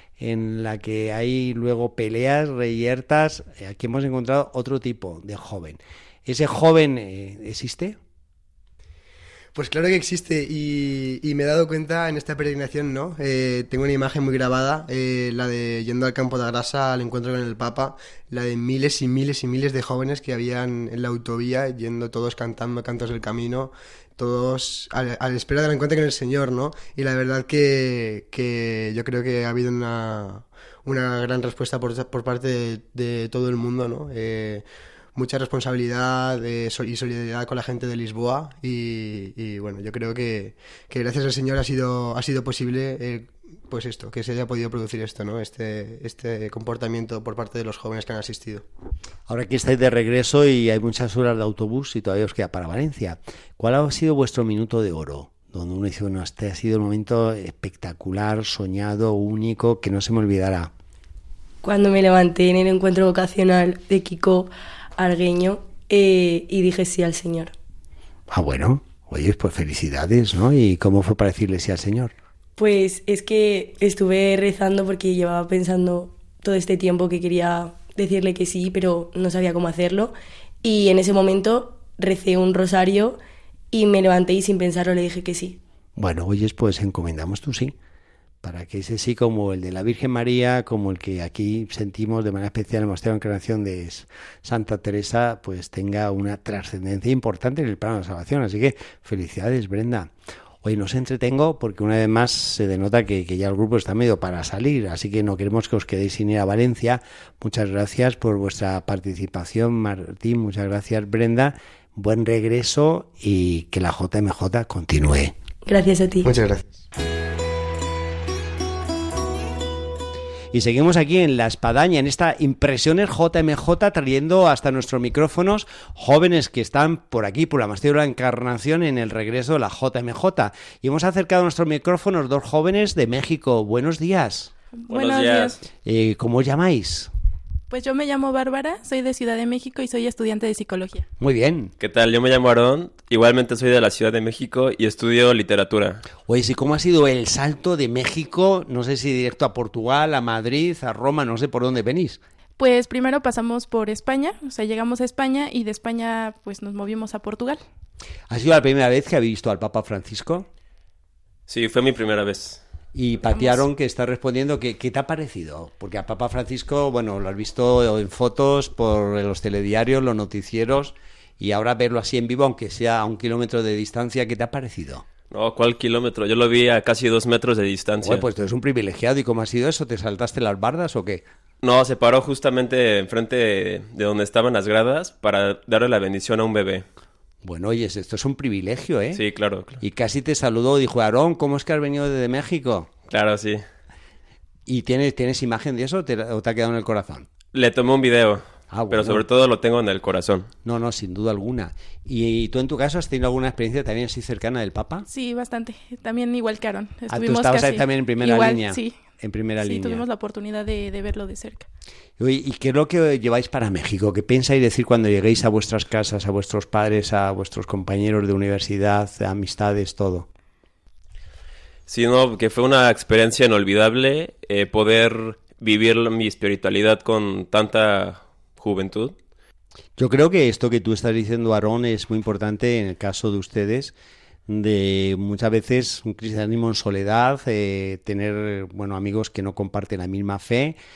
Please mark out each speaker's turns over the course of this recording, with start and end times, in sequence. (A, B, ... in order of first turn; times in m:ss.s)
0:00.2-0:08.0 A
0:09.5-0:48.6 B
0:49.3-1:00.7 A
1:01.6-1:07.5 C
1:08.3-1:12.1 A
1:12.6-1:23.2 C
1:23.7-1:25.6 C
1:26.0-1:27.7 A
1:28.4-1:55.3 A
1:55.6-1:56.3 C
1:56.2-1:56.8 B
2:00.5-2:14.5 A
2:14.8-2:15.6 D
2:14.9-2:15.6 E
2:15.8-2:17.1 A
2:17.7-2:21.1 D
2:21.2-2:21.7 A
2:21.8-2:26.0 E
2:26.2-2:32.2 A
2:32.6-2:37.6 D
2:38.3-2:40.5 A
2:41.5-2:42.6 E
2:42.9-2:55.0 A
2:43.3-2:43.6 D
2:55.3-2:58.2 E
2:58.0-3:01.2 A
3:01.6-3:06.8 E
3:07.4-3:09.2 A
3:09.1-3:09.8 E
3:09.8-3:12.9 A
3:13.1-3:13.6 E
3:14.6-3:17.3 A
3:17.5-3:20.5 E
3:18.7-3:19.2 A
3:20.6-3:25.0 A
3:25.1-3:29.0 D
3:27.1-3:30.0 A
3:29.6-3:31.7 D
3:32.2-3:40.3 A
3:41.9-3:49.1 E
3:50.0-3:53.9 A
3:54.5-4:00.8 A